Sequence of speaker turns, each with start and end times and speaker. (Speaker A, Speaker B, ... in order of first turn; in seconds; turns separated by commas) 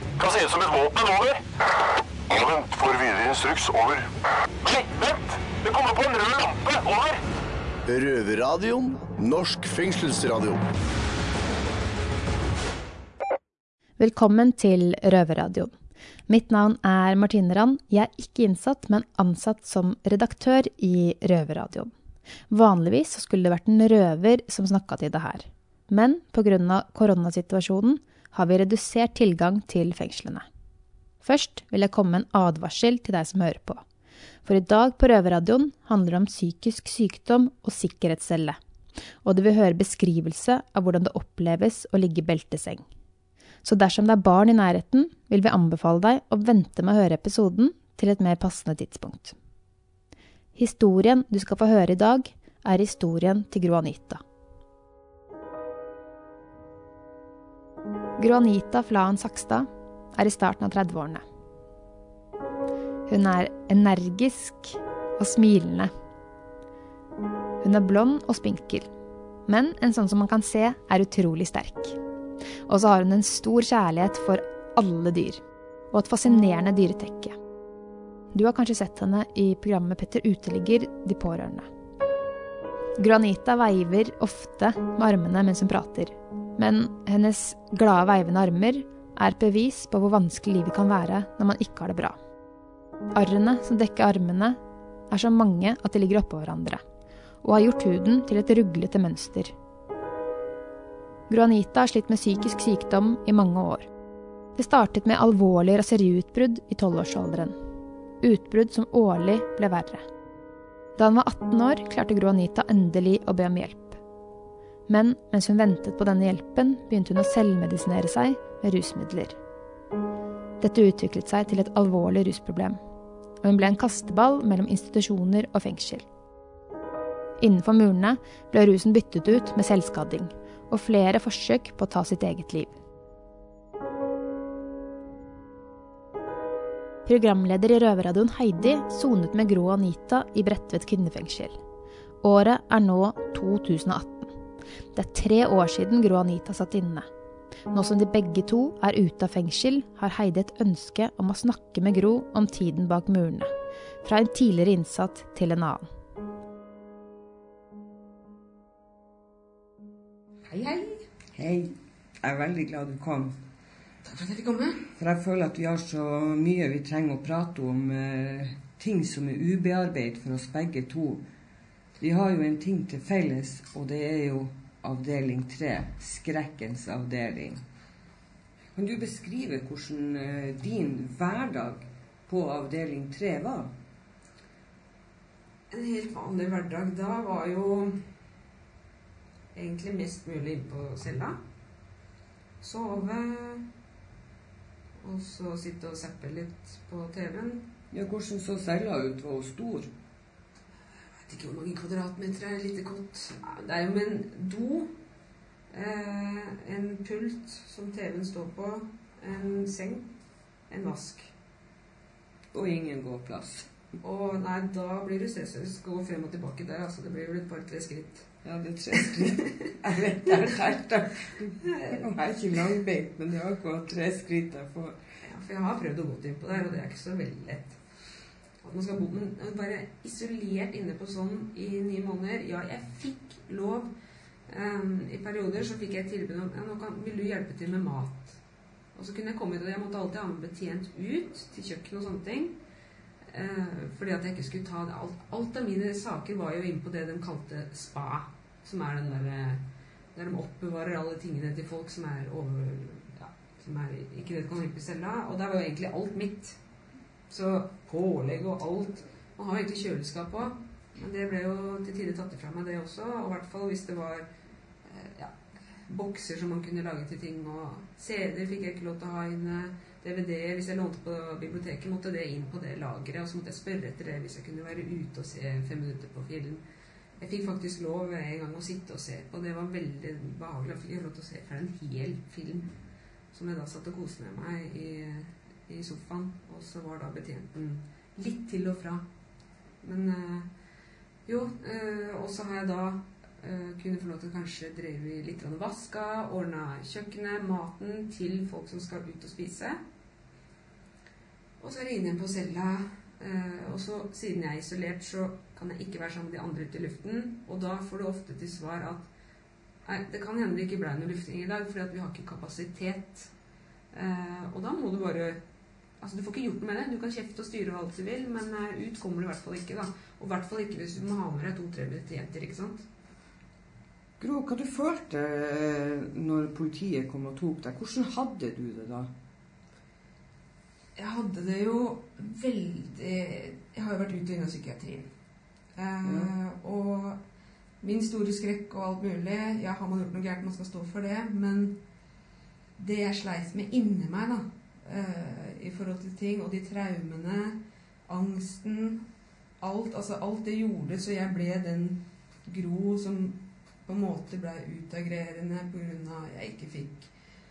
Speaker A: 0.2-1.4, Speaker A: 2.3-4.0, Speaker A: 4.6-7.2, Speaker B: 7.8-10.7, Speaker C: 14.0-15.7, Speaker C: 16.3-21.9, Speaker C: 22.5-30.4, Speaker C: 31.2-33.8, Speaker C: 34.5-38.6, Speaker C: 39.2-42.8, Speaker C: 43.6-49.4, Speaker C: 50.5-54.2, Speaker C: 58.2-61.2, Speaker C: 63.1-65.9, Speaker C: 67.6-68.9, Speaker C: 69.5-72.0, Speaker C: 72.7-77.3, Speaker C: 78.3-81.7, Speaker C: 83.0-92.2, Speaker C: 93.1-94.6, Speaker C: 95.1-96.8, Speaker C: 97.4-99.5, Speaker C: 101.3-103.9, Speaker C: 104.5-107.6, Speaker C: 108.2-110.0, Speaker C: 111.0-114.0, Speaker C: 114.9-119.4, Speaker C: 120.6-122.8, Speaker C: 123.4-126.0, Speaker C: 127.4-132.8, Speaker C: 137.0-141.6, Speaker C: 142.2-144.3, Speaker C: 144.9-147.1, Speaker C: 147.7-153.5, Speaker C: 154.0-155.9, Speaker D: 160.4-161.0, Speaker E: 161.3-163.3, Speaker D: 164.0-164.8, Speaker E: 165.0-171.2, Speaker E: 172.0-177.6, Speaker E: 178.8-183.7, Speaker D: 185.7-187.9, Speaker D: 189.5-191.4, Speaker D: 192.6-193.7, Speaker D: 195.0-197.7, Speaker E: 197.9-199.9, Speaker D: 201.2-204.9, Speaker D: 205.7-210.1, Speaker D: 210.7-211.3, Speaker E: 212.5-213.7, Speaker D: 214.0-218.3, Speaker E: 218.4-225.0, Speaker D: 218.9-220.7, Speaker D: 221.6-222.0, Speaker D: 225.2-227.8, Speaker D: 228.6-233.9, Speaker D: 234.5-238.4, Speaker D: 238.9-242.6, Speaker D: 243.3-249.6, Speaker D: 250.2-256.6, Speaker D: 257.3-264.3, Speaker D: 264.9-265.3, Speaker D: 265.9-276.6, Speaker D: 277.2-282.7, Speaker D: 283.3-289.1, Speaker D: 289.8-290.5, Speaker D: 291.2-299.8, Speaker D: 301.6-309.1, Speaker D: 309.9-313.3, Speaker D: 313.9-315.4, Speaker D: 316.0-322.9, Speaker E: 324.2-329.1, Speaker D: 331.0-335.1, Speaker D: 335.8-337.2, Speaker E: 336.0-336.3, Speaker D: 337.8-341.8, Speaker D: 342.8-349.1, Speaker D: 349.6-357.1